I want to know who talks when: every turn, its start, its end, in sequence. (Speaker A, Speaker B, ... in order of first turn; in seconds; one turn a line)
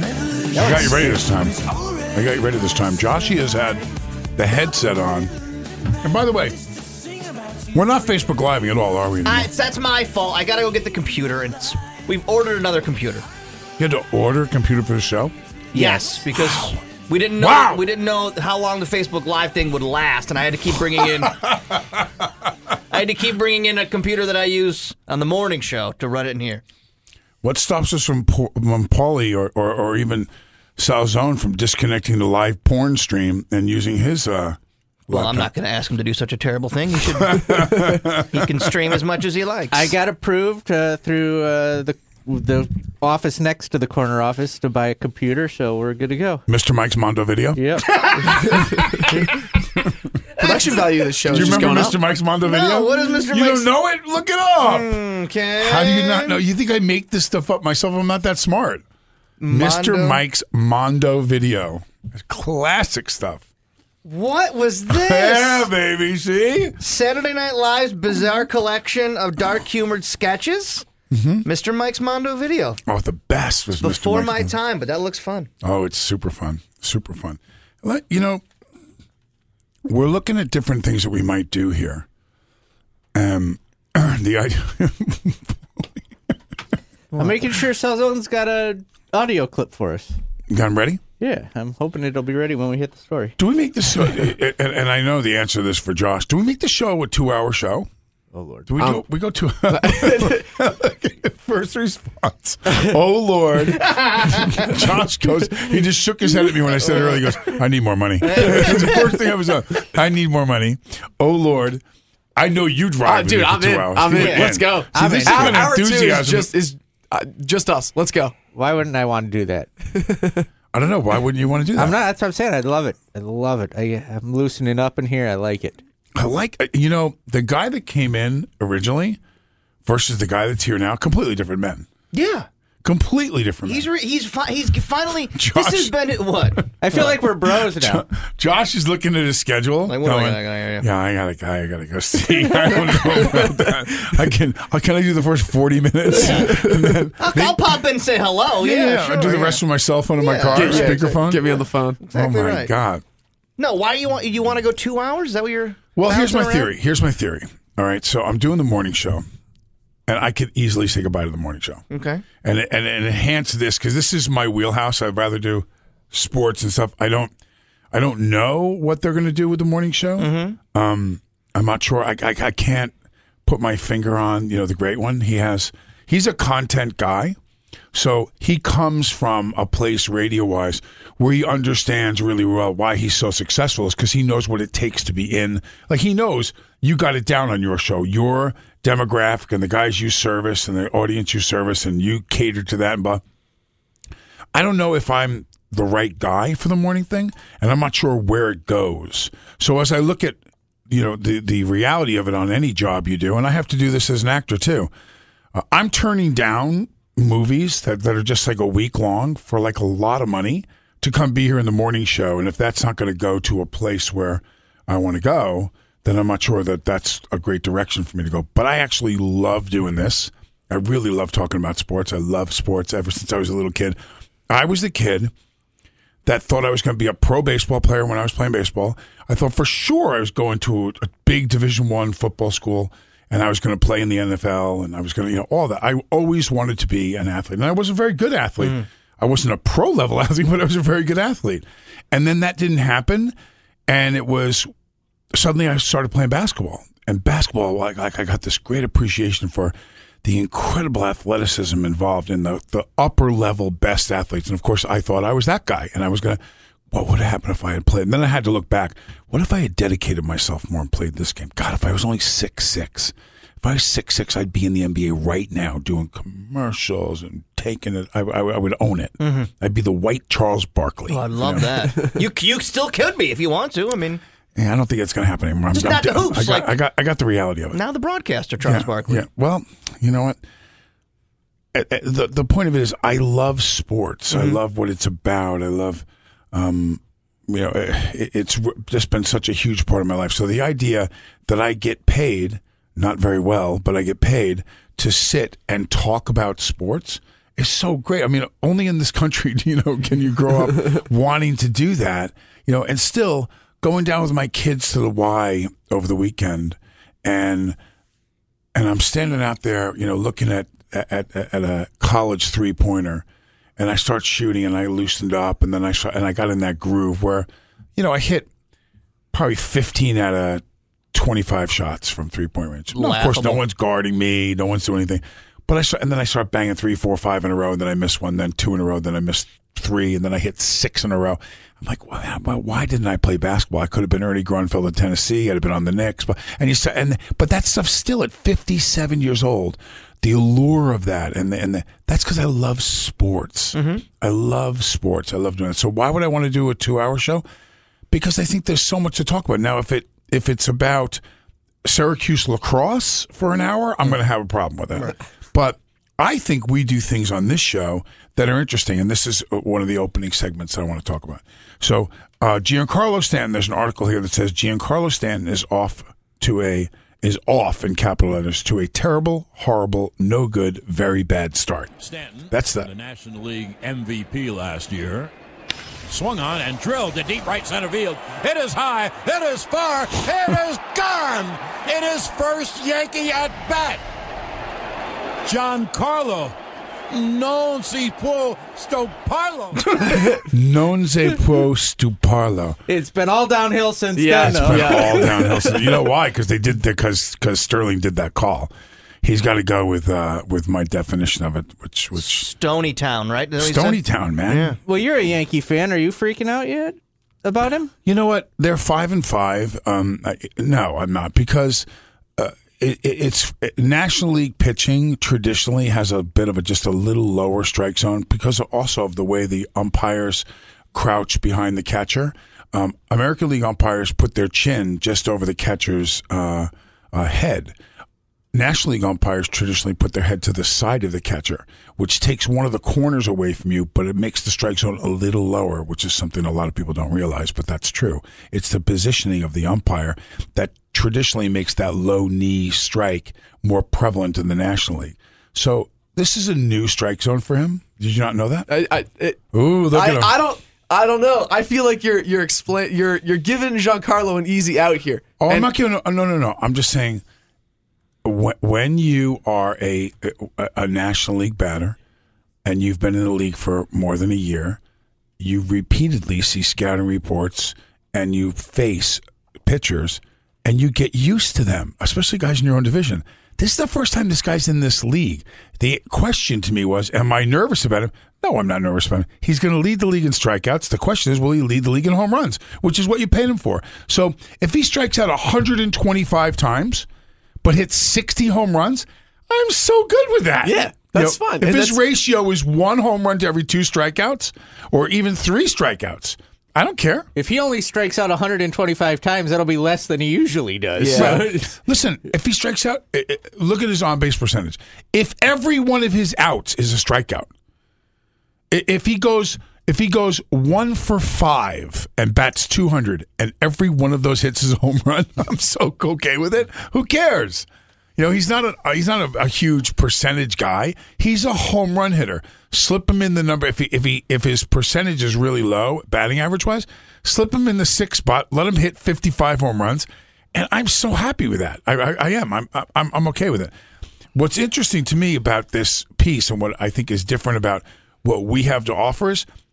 Speaker A: 0.6-3.8
Speaker A: 4.4-5.3
Speaker A: 6.0-6.6
Speaker A: 7.7-9.5
Speaker B: 9.2-13.2
Speaker A: 13.8-15.3
Speaker C: 15.7-16.2
Speaker B: 15.8-21.8
Speaker A: 16.3-16.8
Speaker A: 17.4-17.9
Speaker B: 22.9-26.6
Speaker A: 27.4-35.5
Speaker B: 35.1-39.9
Speaker A: 37.1-38.7
Speaker C: 39.7-46.5
Speaker A: 46.5-50.0
Speaker C: 47.6-47.9
Speaker B: 47.9-48.5
Speaker D: 48.3-49.1
Speaker D: 50.4-52.0
Speaker B: 50.4-50.8
Speaker A: 51.3-54.9
Speaker B: 51.3-51.9
Speaker B: 52.4-53.7
Speaker B: 54.6-56.4
Speaker A: 55.6-58.8
Speaker B: 59.4-60.2
Speaker A: 59.5-63.4
Speaker B: 64.0-65.7
Speaker A: 64.9-66.8
Speaker B: 66.8-70.9
Speaker A: 71.1-71.5
Speaker B: 71.4-72.8
Speaker A: 72.9-74.6
Speaker B: 73.8-75.5
Speaker A: 75.6-78.4
Speaker A: 79.9-82.1
Speaker A: 83.1-85.9
Speaker C: 87.2-90.2
Speaker A: 90.5-91.0
Speaker C: 91.2-93.4
Speaker A: 93.4-97.9
Speaker C: 98.3-98.7
Speaker A: 98.7-111.8
Speaker D: 99.7-100.5
Speaker B: 103.8-104.7
Speaker B: 108.3-109.1
Speaker A: 112.4-116.5
Speaker D: 113.0-118.3
Speaker B: 114.2-114.5
Speaker C: 114.9-115.8
Speaker C: 118.5-119.7
Speaker D: 120.0-120.5
Speaker A: 120.7-122.0
Speaker C: 121.8-125.8
Speaker A: 126.2-129.2
Speaker A: 129.8-131.9
Speaker B: 132.1-132.5
Speaker A: 132.8-133.9
Speaker B: 133.7-137.1
Speaker A: 135.3-135.9
Speaker A: 136.6-137.2
Speaker C: 136.8-138.1
Speaker A: 137.7-147.6
Speaker B: 139.9-140.9
Speaker B: 146.1-146.6
Speaker D: 146.5-146.7
Speaker B: 147.2-149.6
Speaker A: 148.6-153.0
Speaker B: 150.2-151.0
Speaker D: 150.5-152.0
Speaker B: 152.0-152.7
Speaker B: 153.6-156.7
Speaker A: 155.9-159.2
Speaker A: 160.1-161.8
Speaker B: 161.9-162.2
Speaker A: 162.4-167.3
Speaker A: 167.9-172.9
Speaker B: 170.2-170.6
Speaker A: 173.5-177.4
Speaker A: 177.9-193.2
Speaker A: 194.5-204.9
Speaker A: 205.5-224.0
Speaker A: 224.5-225.3
Speaker A: 226.2-243.3
Speaker B: 238.6-238.9
Speaker A: 243.9-244.7
Speaker A: 245.3-256.4
Speaker A: 256.9-271.9
Speaker B: 269.2-269.5
Speaker B: 271.1-274.2
Speaker A: 274.6-277.8
Speaker B: 275.7-276.7
Speaker B: 277.7-279.2
Speaker A: 278.6-280.4
Speaker A: 281.7-307.8
Speaker B: 284.3-284.6
Speaker A: 308.7-313.2
Speaker A: 313.8-318.5
Speaker A: 319.3-347.4
Speaker B: 322.9-323.6
Speaker B: 343.7-344.1
Speaker A: 348.1-351.2
Speaker A: 351.9-371.9
Speaker E: 372.0-375.3
Speaker A: 372.5-372.9
Speaker E: 376.1-384.0
Speaker E: 385.4-386.6
Speaker E: 387.1-390.2
Speaker A: 390.4-392.8
Speaker C: 392.9-395.3
Speaker D: 394.2-395.9
Speaker A: 394.4-398.7
Speaker A: 399.2-402.5
Speaker B: 402.2-404.8
Speaker A: 403.6-404.8
Speaker C: 404.8-407.9
Speaker A: 408.1-427.8
Speaker A: 428.5-448.7
Speaker D: 448.7-449.4
Speaker A: 449.5-450.4
Speaker D: 449.9-455.7
Speaker A: 455.4-457.2
Speaker A: 458.2-462.0
Speaker A: 462.6-464.8
Speaker A: 465.4-487.1
Speaker A: 487.6-497.3
Speaker D: 490.6-492.0
Speaker C: 497.4-501.8
Speaker D: 501.0-501.4
Speaker A: 501.1-507.5
Speaker A: 508.7-533.7
Speaker A: 534.4-539.5